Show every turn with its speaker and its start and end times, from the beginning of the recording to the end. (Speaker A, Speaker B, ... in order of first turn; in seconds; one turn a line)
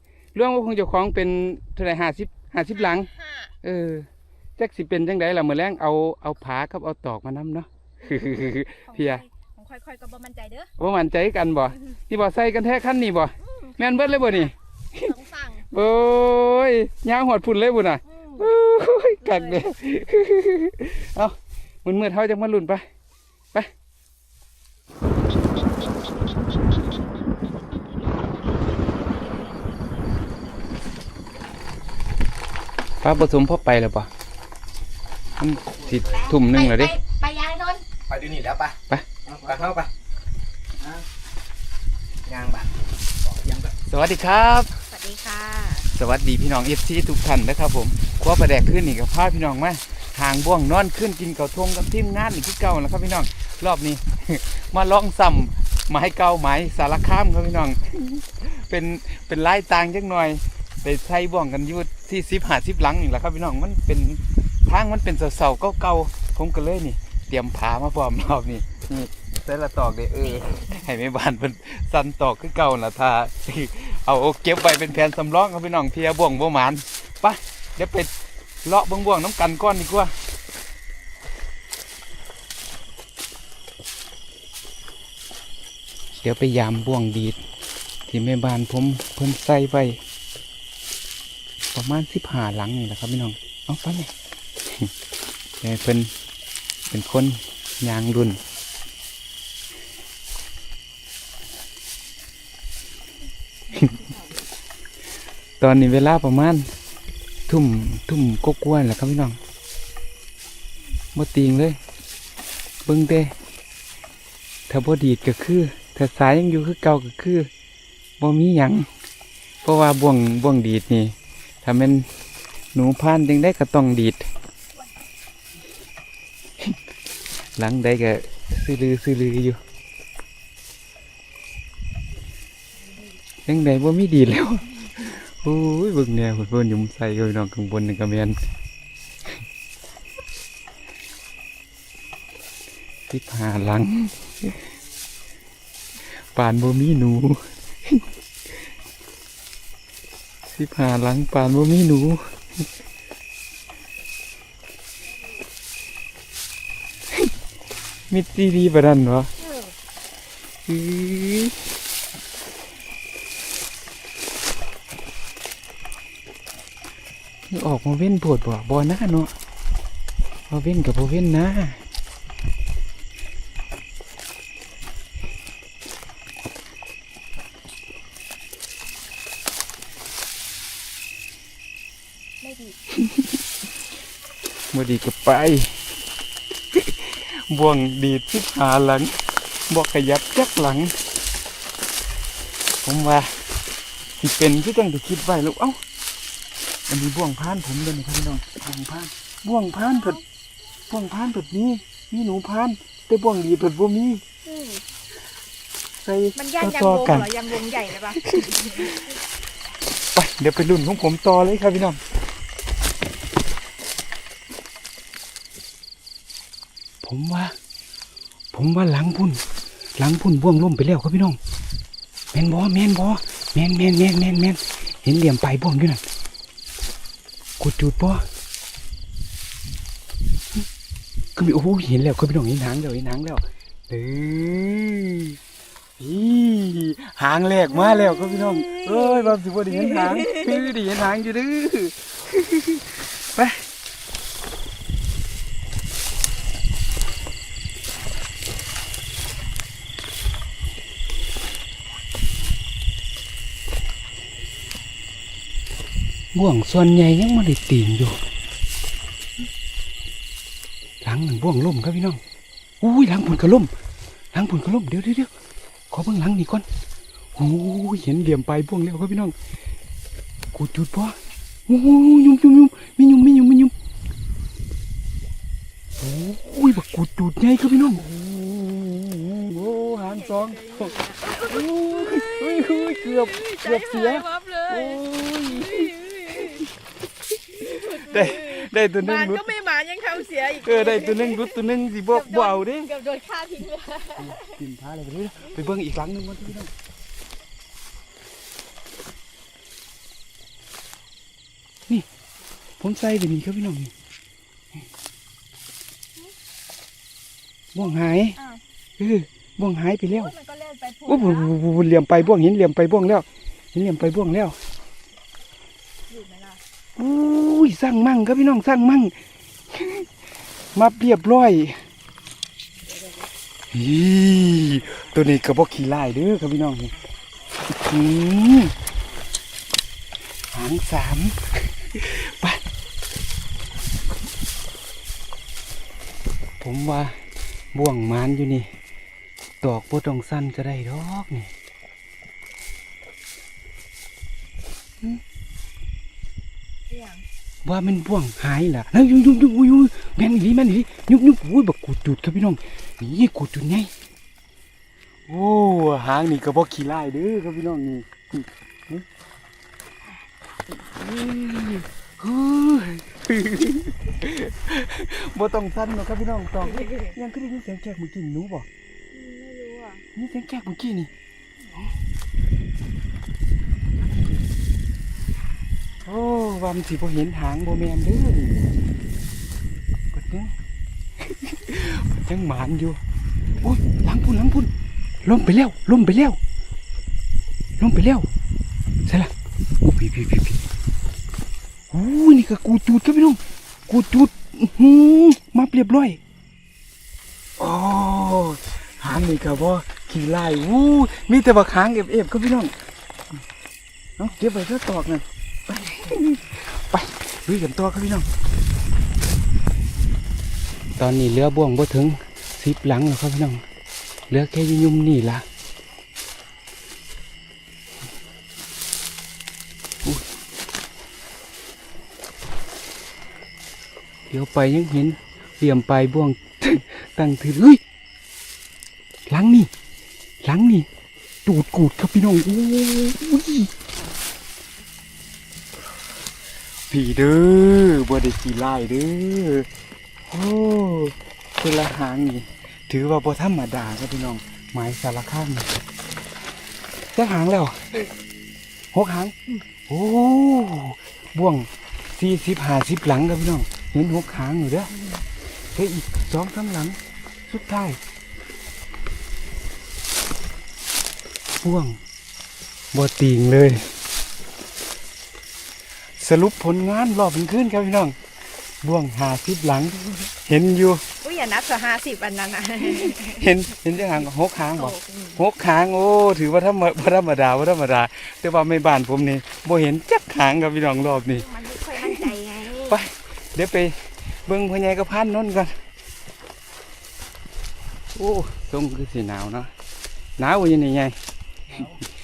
Speaker A: 0.3-3.1
Speaker B: 2.8-3.5
Speaker A: 3.6-4.1
Speaker A: 4.6-9.2
Speaker B: 8.9-10.7
Speaker A: 10.8-15.1
Speaker B: 13.4-15.6
Speaker A: 15.7-22.8
Speaker B: 18.1-18.5
Speaker B: 19.2-19.6
Speaker A: 33.0-34.1
Speaker A: 35.4-37.0
Speaker C: 35.8-36.2
Speaker B: 36.1-37.8
Speaker C: 38.1-39.9
Speaker C: 40.8-41.0
Speaker C: 42.2-43.8
Speaker A: 43.9-44.8
Speaker B: 44.9-45.9
Speaker A: 45.9-78.1
Speaker A: 78.6-80.1
Speaker A: 86.2-87.4
Speaker A: 88.1-90.0
Speaker A: 91.7-94.1
Speaker A: 95.6-96.1
Speaker A: 96.9-98.4
Speaker B: 103.7-104.2
Speaker A: 105.6-106.7
Speaker A: 107.5-109.4
Speaker A: 111.1-111.8
Speaker A: 112.9-113.3
Speaker A: 114.7-117.5
Speaker A: 118.2-118.9
Speaker A: 119.6-122.1
Speaker A: 122.7-124.3
Speaker A: 127.6-129.6
Speaker A: 133.5-138.4
Speaker A: 143.1-144.6
Speaker A: 146.3-148.1
Speaker A: 150.5-152.3
Speaker A: 158.1-159.3
Speaker B: 159.4-159.7
Speaker A: 160.7-161.6
Speaker A: 167.5-169.3
Speaker A: 170.5-171.8
Speaker B: 182.4-182.8
Speaker A: 184.7-185.8
Speaker A: 186.7-191.0
Speaker A: 192.8-193.3
Speaker A: 194.2-195.8
Speaker A: 196.9-200.2
Speaker B: 199.9-200.2
Speaker A: 200.9-204.2
Speaker B: 204.4-204.8
Speaker A: 206.0-207.3
Speaker B: 206.3-209.1
Speaker A: 208.1-209.1
Speaker A: 210.2-212.0
Speaker A: 217.0-217.6
Speaker A: 218.5-219.4
Speaker A: 220.0-221.4
Speaker A: 222.3-226.0
Speaker A: 227.6-228.2
Speaker A: 231.4-235.4
Speaker A: 236.0-243.6
Speaker B: 237.7-240.7
Speaker A: 256.3-258.2
Speaker A: 261.0-262.2
Speaker A: 262.8-263.7
Speaker A: 264.3-265.3
Speaker A: 265.9-266.7
Speaker A: 267.4-269.4
Speaker A: 270.5-271.2
Speaker A: 271.7-273.7
Speaker A: 276.0-286.7
Speaker B: 279.9-286.6
Speaker A: 287.4-289.4
Speaker B: 287.6-291.6
Speaker A: 290.5-292.9
Speaker B: 292.1-294.6
Speaker A: 294.2-296.7
Speaker A: 302.8-303.9
Speaker A: 307.8-308.4
Speaker B: 308.4-308.6
Speaker A: 309.0-310.3
Speaker B: 310.1-311.6
Speaker A: 311.1-314.6
Speaker B: 316.1-316.6
Speaker A: 317.0-319.1
Speaker A: 319.7-320.1
Speaker A: 320.8-321.8
Speaker B: 322.8-323.3
Speaker A: 323.7-326.9
Speaker A: 327.7-328.8
Speaker A: 330.5-332.6
Speaker A: 336.6-337.2
Speaker A: 337.7-338.7
Speaker A: 339.6-341.5
Speaker B: 346.9-347.2
Speaker A: 347.6-353.9
Speaker A: 355.3-359.1
Speaker A: 360.7-368.7
Speaker B: 366.6-367.1
Speaker B: 369.1-370.0
Speaker A: 370.1-371.1
Speaker A: 376.1-378.7
Speaker A: 380.1-380.5
Speaker A: 381.2-383.0
Speaker A: 383.6-384.7
Speaker A: 385.2-386.4
Speaker A: 387.8-388.3
Speaker A: 389.1-390.6
Speaker A: 391.9-396.2
Speaker A: 397.6-402.7
Speaker A: 404.2-408.3
Speaker A: 411.0-413.6
Speaker A: 414.3-415.4
Speaker A: 424.3-427.8
Speaker A: 429.3-429.7
Speaker A: 430.4-430.9
Speaker A: 431.4-433.7
Speaker A: 436.9-439.7
Speaker A: 440.3-445.7
Speaker A: 447.1-448.0
Speaker A: 448.9-449.4
Speaker A: 449.9-454.9
Speaker A: 455.7-458.0
Speaker A: 461.6-462.0
Speaker A: 462.9-463.9
Speaker A: 466.2-468.2
Speaker A: 468.8-471.0
Speaker B: 471.2-473.5
Speaker A: 472.8-482.3
Speaker B: 474.8-475.4
Speaker B: 481.2-483.0
Speaker A: 482.9-485.8
Speaker A: 488.1-489.7
Speaker A: 490.4-491.2